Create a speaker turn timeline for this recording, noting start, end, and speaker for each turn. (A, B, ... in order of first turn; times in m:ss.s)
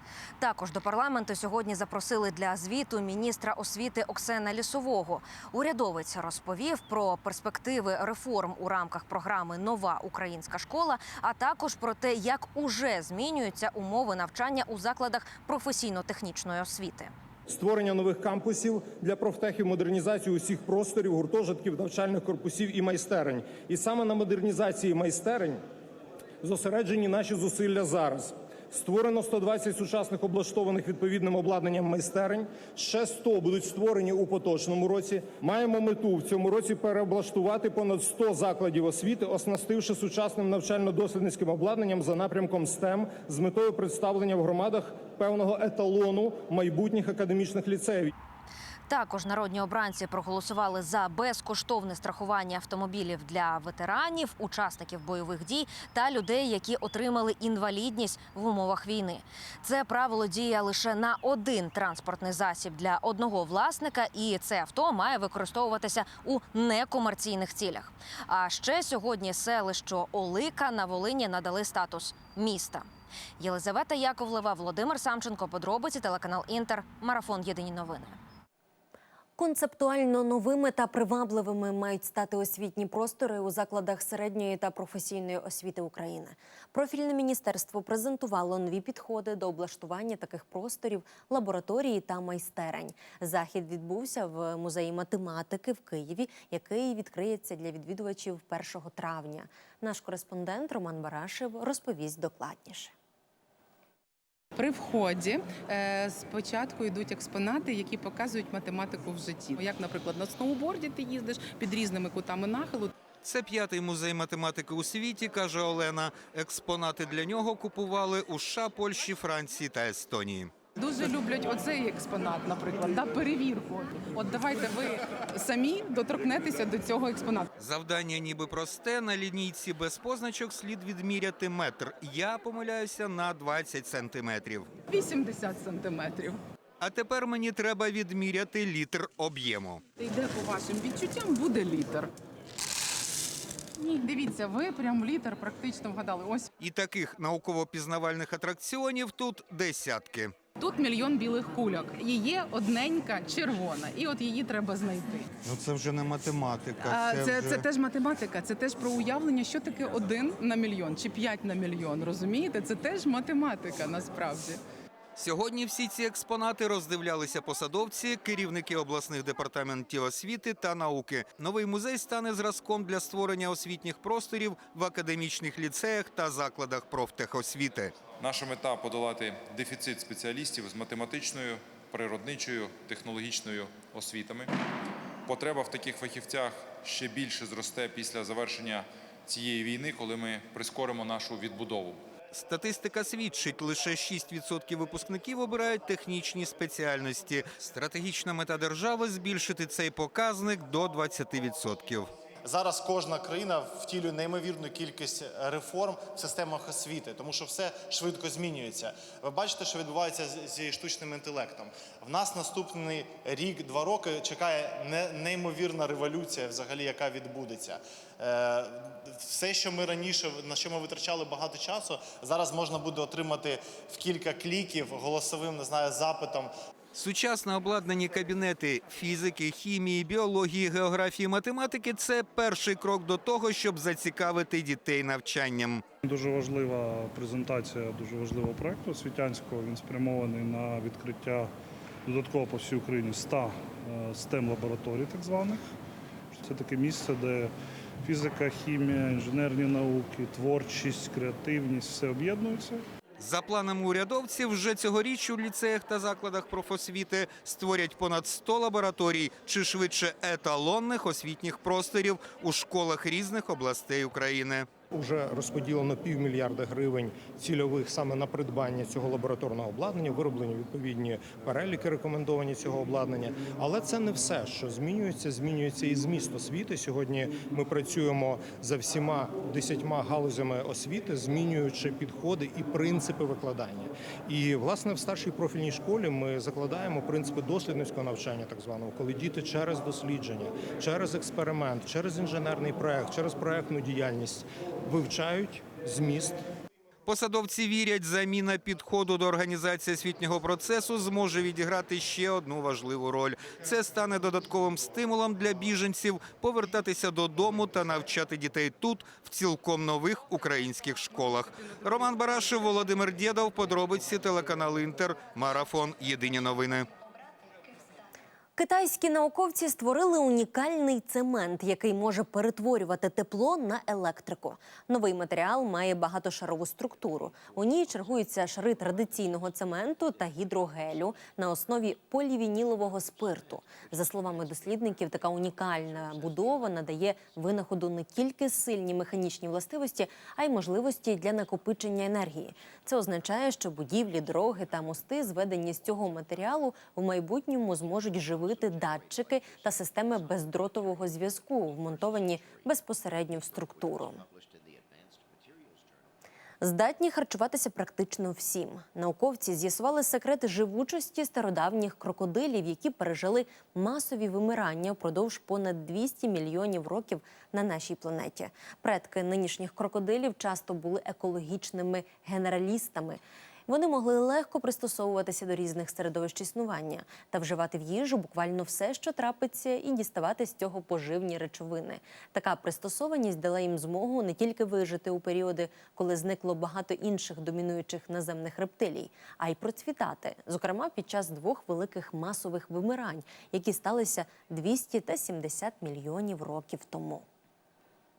0:00.4-0:17.1 A
0:17.5-0:25.6 B
0:26.4-0:48.1 B
0:48.9-1:12.9 A
1:13.4-1:18.2 A
1:19.4-1:42.9 C
1:44.6-1:52.9 D
1:53.2-2:00.5 E
2:00.8-2:07.5 D
2:07.6-2:14.7 E
2:14.9-2:16.4 D
2:16.8-2:19.8 E
2:20.0-2:22.1 D
2:23.8-2:26.5 D
2:26.6-2:30.3 E
2:30.6-2:35.3 D
2:35.4-2:37.7 E
2:36.9-2:44.6 D
2:45.2-2:57.9 E
2:58.2-3:04.5 F
3:05.3-3:12.0 F
3:12.3-3:22.1 E
3:22.4-3:46.5 G
3:46.9-3:55.8 E
3:56.0-4:01.5 H
4:02.1-4:05.6 H
4:06.3-4:12.8 H
4:13.2-4:24.7 E
4:24.9-4:56.4 B
4:57.1-5:16.9 E
5:18.6-5:54.2 C
5:56.6-6:37.2 C